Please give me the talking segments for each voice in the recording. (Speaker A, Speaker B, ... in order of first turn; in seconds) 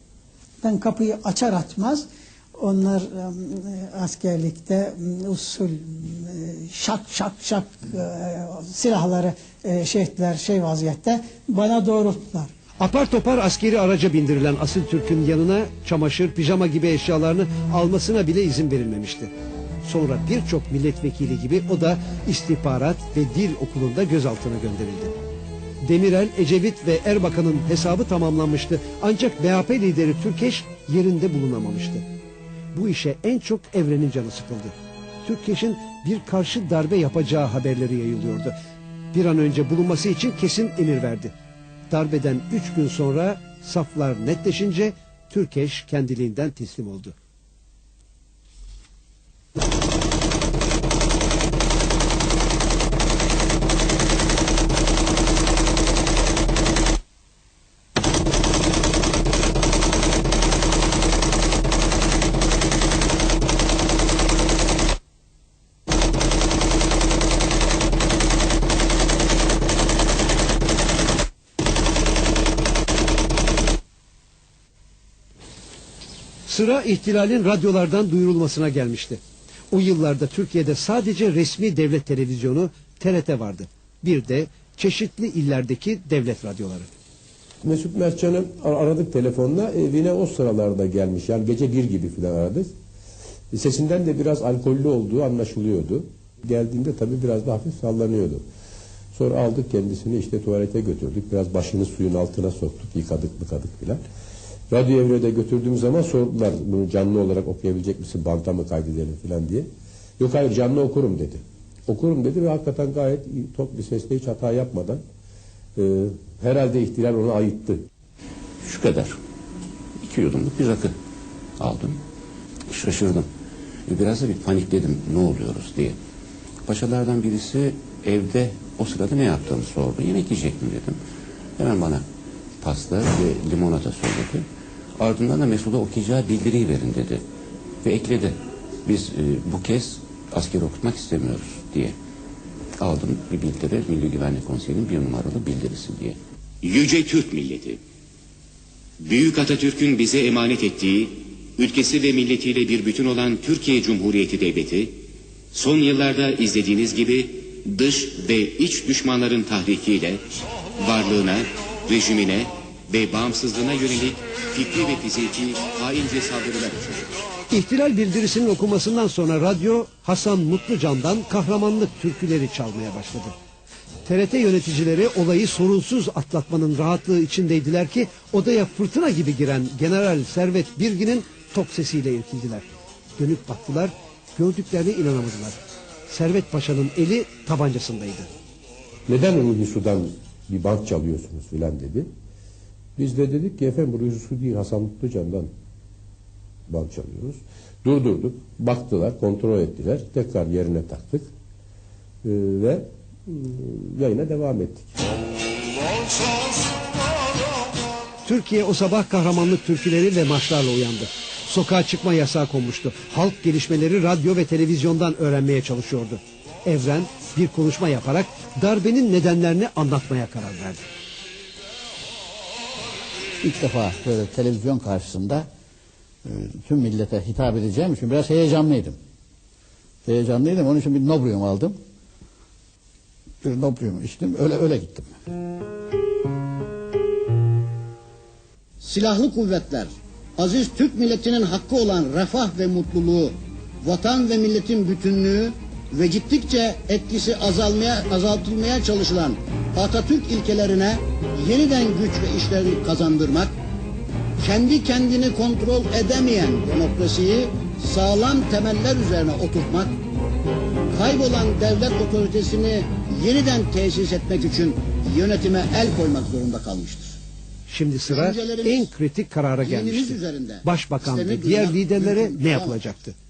Speaker A: 0.6-2.0, 2.6-12.5
Speaker B: 12.8-19.3, 19.8-25.1, 25.8-32.0, 32.7-38.5, 39.1-41.3, 41.9-47.1, 76.5-86.9, 167.5-173.3, 174.0-182.6, 183.2-185.6, 186.1-188.3, 208.2-220.8, 267.7-273.1
Speaker C: 87.6-92.7, 93.5-98.4, 99.1-104.0, 104.7-109.7, 110.2-115.0, 115.7-117.8, 189.1-192.1, 192.9-195.5, 196.7-201.3, 202.2-204.9
Speaker D: 118.7-119.1, 120.0-120.9, 121.6-122.0, 122.7-123.2, 123.9-125.9, 126.7-131.0, 131.6-132.0, 132.6-134.4, 135.0-137.2, 137.8-138.3, 138.8-141.9, 142.8-146.1
Speaker E: 146.6-147.8, 149.0-160.2, 160.8-167.3
Speaker F: 223.4-225.5, 226.2-229.0, 230.0-231.8, 233.4-235.1
Speaker G: 238.8-253.5, 254.4-259.9, 260.9-267.2, 268.1-268.9, 269.6-272.8